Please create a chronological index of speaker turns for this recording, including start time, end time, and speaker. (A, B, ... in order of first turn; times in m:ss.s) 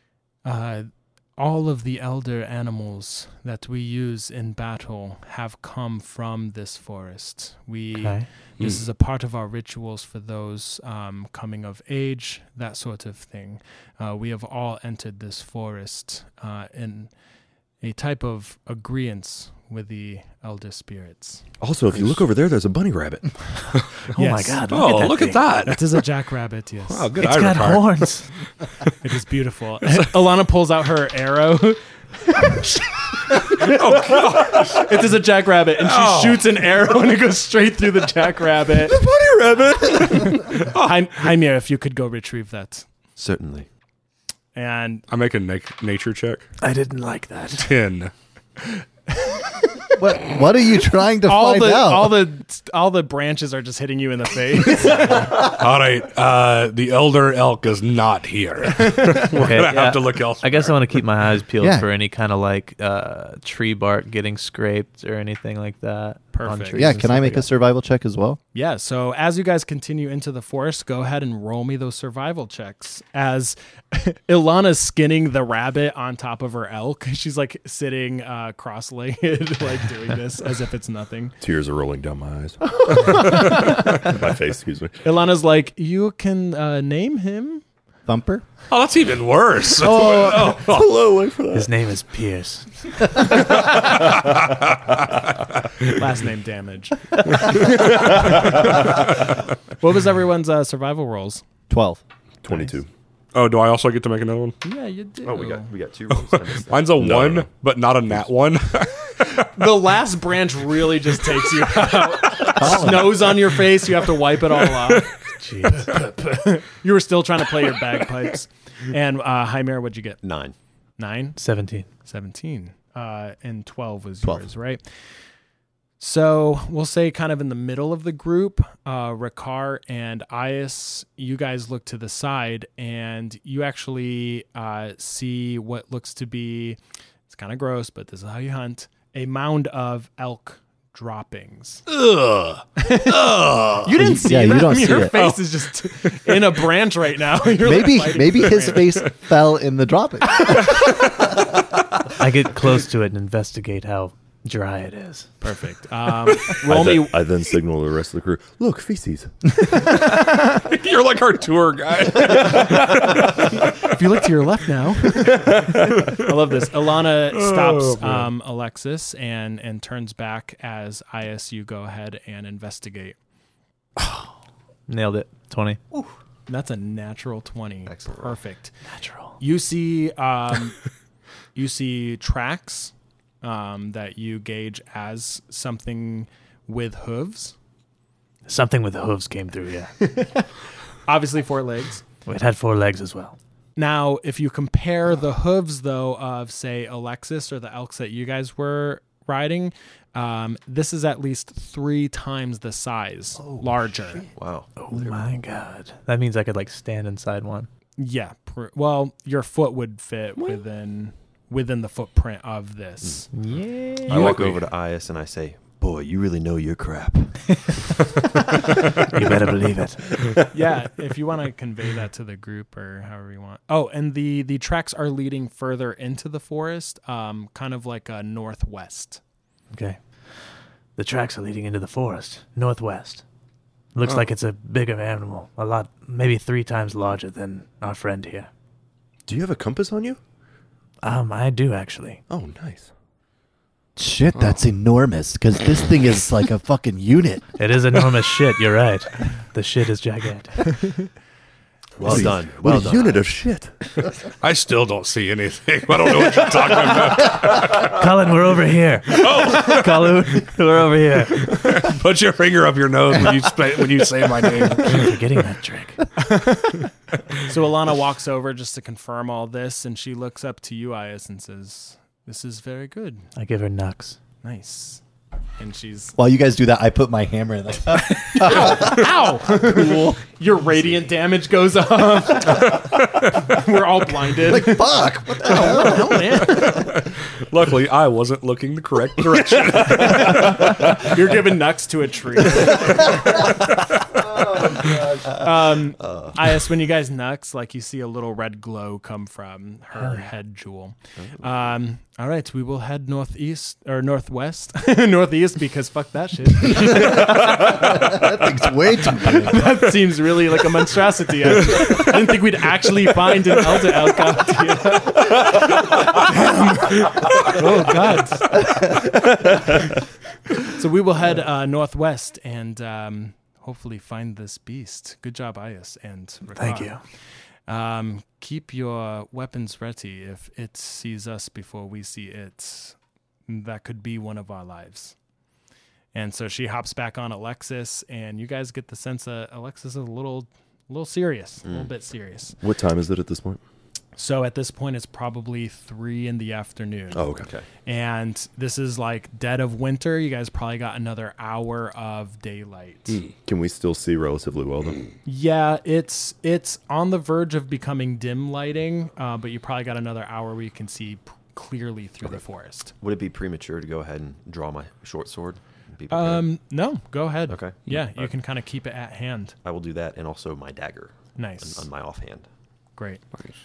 0:00.4-0:17.1 A
0:08.0-0:08.3 B
0:17.8-0:21.4 A
0:21.6-0:23.3 C
0:24.1-0:25.6 B
0:24.1-0:24.8 A
0:24.7-0:26.0 D
0:25.6-0:27.1 A
0:26.9-0:28.2 D
0:27.2-0:28.3 B
0:29.0-0:39.1 A
0:33.4-0:35.1 D
0:35.8-0:36.6 D
0:39.8-0:42.9 A
0:40.5-0:40.9 D
0:43.2-0:43.7 E
0:44.5-0:45.0 A
0:45.1-0:46.5 D
0:46.6-0:47.7 B
0:47.6-0:48.1 D
0:48.6-0:49.8 A
0:50.0-0:52.2 F
0:51.2-0:55.3 A
0:55.1-1:01.0 D
0:58.8-0:59.2 A
0:59.3-1:07.5 B
1:01.6-1:01.9 F
1:06.3-1:06.9 A
1:06.7-1:08.4 F
1:08.5-1:21.4 A
1:21.4-1:23.4 C
1:22.9-1:24.0 A
1:24.0-1:25.0 C
1:25.0-1:27.6 A
1:28.0-1:28.4 F
1:28.7-1:30.9 D
1:29.8-1:31.7 C
1:31.5-1:33.1 B
1:33.6-1:35.2 D
1:35.9-1:39.0 A
1:37.3-1:39.0 D
1:39.7-1:41.4 A
1:41.7-1:42.0 F
1:42.4-1:42.9 C
1:43.3-1:44.6 D
1:44.6-1:45.7 A
1:45.2-1:47.0 E
1:46.1-1:49.5 D
1:47.0-1:47.5 C
1:49.5-1:55.1 A
1:52.3-1:52.6 D
1:52.6-1:53.3 F
1:55.4-1:55.9 B
1:55.6-2:00.2 A
2:00.2-2:00.5 E
2:01.0-2:01.4 A
2:01.4-2:01.9 B
2:02.0-2:04.8 A
2:06.0-2:21.8 A
2:21.9-2:23.8 D
2:22.8-2:29.0 A
2:24.0-2:25.2 F
2:25.1-2:25.4 D
2:26.0-2:26.4 D
2:27.6-2:30.7 F
2:32.2-2:35.3 B
2:35.4-2:37.2 A
2:36.6-2:39.3 C
2:39.9-2:43.9 D
2:42.7-2:53.2 A
2:45.1-2:46.3 D
2:47.3-2:48.3 D
2:54.0-2:54.3 B
2:54.9-2:55.8 B
2:56.5-2:58.7 A
2:57.9-2:58.4 E
2:58.9-2:59.4 B
2:59.4-3:00.8 A
3:01.5-3:07.5 A
3:08.4-3:10.0 B
3:10.0-3:10.5 A
3:11.0-3:12.0 A
3:12.2-3:13.4 B
3:13.8-3:24.3 A
3:24.3-3:25.3 E
3:24.8-3:27.7 B
3:28.0-3:33.3 A
3:33.3-3:34.4 B
3:34.1-3:38.1 E
3:34.1-3:34.5 D
3:34.2-3:34.5 C
3:39.0-3:40.4 B
3:40.5-3:49.2 A
3:49.7-3:50.4 B
3:51.0-3:53.2 B
3:53.9-3:58.5 B
3:59.3-4:00.2 C
4:01.0-4:02.2 B
4:02.3-4:02.9 C
4:04.0-4:07.4 F
4:07.6-4:11.0 B
4:12.0-4:13.2 E
4:12.0-4:13.7 C
4:14.4-4:18.0 D
4:17.3-4:21.9 B
4:19.1-4:20.5 D
4:21.3-4:25.2 D
4:24.8-4:26.1 B
4:26.2-4:33.3 A
4:33.4-4:34.2 B
4:34.4-4:35.0 A
4:35.6-4:36.2 A
4:36.2-4:40.2 F
4:38.2-4:46.9 A
4:44.4-4:46.4 F
4:46.4-4:51.1 D
4:49.7-4:53.5 A
4:54.8-5:08.4 A
4:56.0-4:56.4 E
5:00.0-5:00.3 B
5:01.2-5:01.6 E
5:06.7-5:09.9 F
5:09.0-5:18.9 A
5:20.6-5:27.0 A
5:26.5-5:27.0 B
5:27.7-5:33.0 A
5:33.5-5:35.1 A
5:36.1-5:42.6 A
5:41.6-5:41.9 E
5:42.6-5:43.6 C
5:44.2-5:47.2 A
5:47.1-5:47.5 C
5:47.3-5:47.6 E
5:47.8-5:53.2 A
5:53.4-5:55.0 C
5:55.2-6:02.9 A
6:03.0-6:06.5 E
6:06.1-6:09.5 A
6:07.5-6:08.3 E
6:09.6-6:12.5 E
6:11.4-6:11.9 A
6:13.0-6:13.2 A